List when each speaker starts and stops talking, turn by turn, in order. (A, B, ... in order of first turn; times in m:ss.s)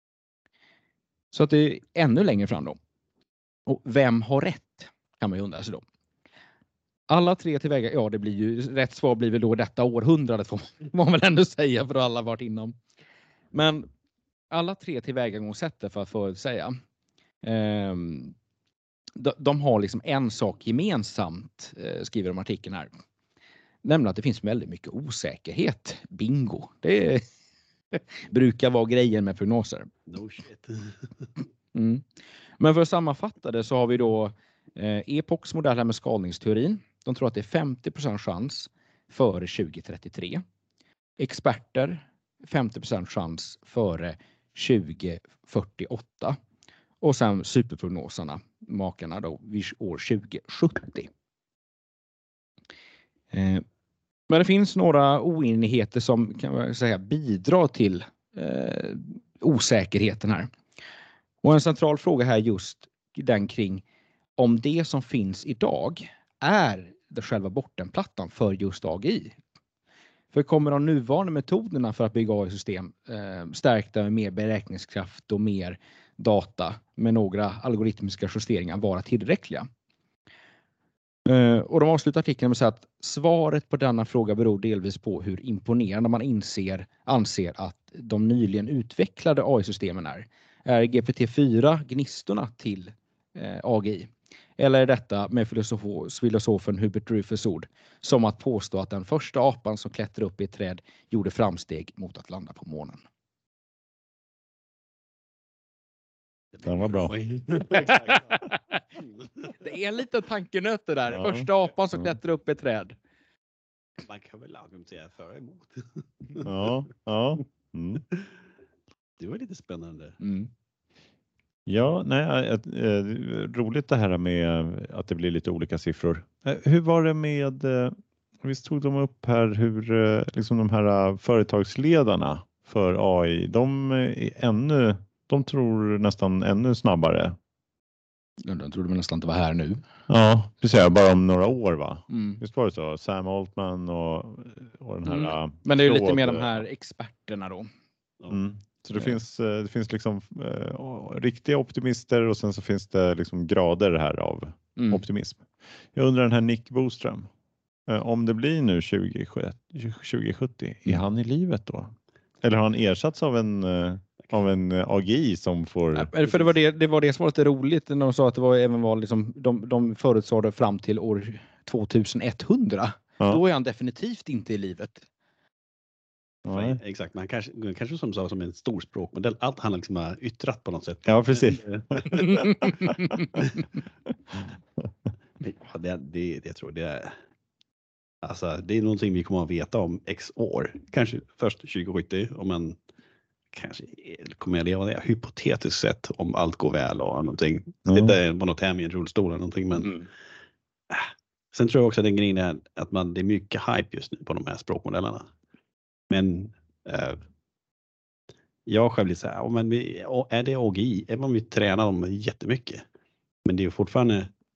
0:01.3-0:02.8 A
0:03.7-0:05.8 A
0:07.1-0:12.8 A
0:13.5-0:13.9 A
0:14.5-0:16.8 A
0:17.4-0:18.3 A
0:19.2-0:22.9 A
0:23.8-0:27.2 A
0:27.9-0:29.9 A
0:30.1-0:31.1 B
0:31.7-0:32.0 A
0:32.6-0:40.4 A
0:41.2-0:46.4 A
0:47.0-0:51.1 A
0:53.3-0:53.6 A
0:54.3-1:00.5 A
1:01.4-1:03.8 A
1:04.4-1:09.4 A
1:10.3-1:19.7 A
1:21.3-1:43.0 A
1:46.6-1:47.1 C
1:46.6-1:48.3 B
1:47.7-1:48.6 A
1:49.0-1:49.5 B
1:49.6-1:53.0 A
1:51.1-1:51.5 C
1:54.0-1:56.5 B
1:56.4-1:58.0 C
1:59.2-2:00.2 B
2:00.2-2:00.5 A
2:01.7-2:17.4 C
2:18.4-2:19.8 A
2:20.1-2:26.6 C
2:22.1-2:22.4 A
2:25.1-2:27.7 A
2:28.3-2:37.3 C
2:34.8-2:35.0 A
2:37.9-2:46.1 C
2:46.0-2:55.0 A
2:56.4-2:56.8 C
2:56.5-3:02.5 B
3:01.1-3:02.9 C
3:05.4-3:07.2 B
3:08.2-3:12.8 B
3:13.5-3:20.1 B
3:17.9-3:18.2 C
3:20.9-3:25.3 B
3:26.1-3:27.2 B
3:28.7-3:32.8 B
3:33.4-3:34.3 B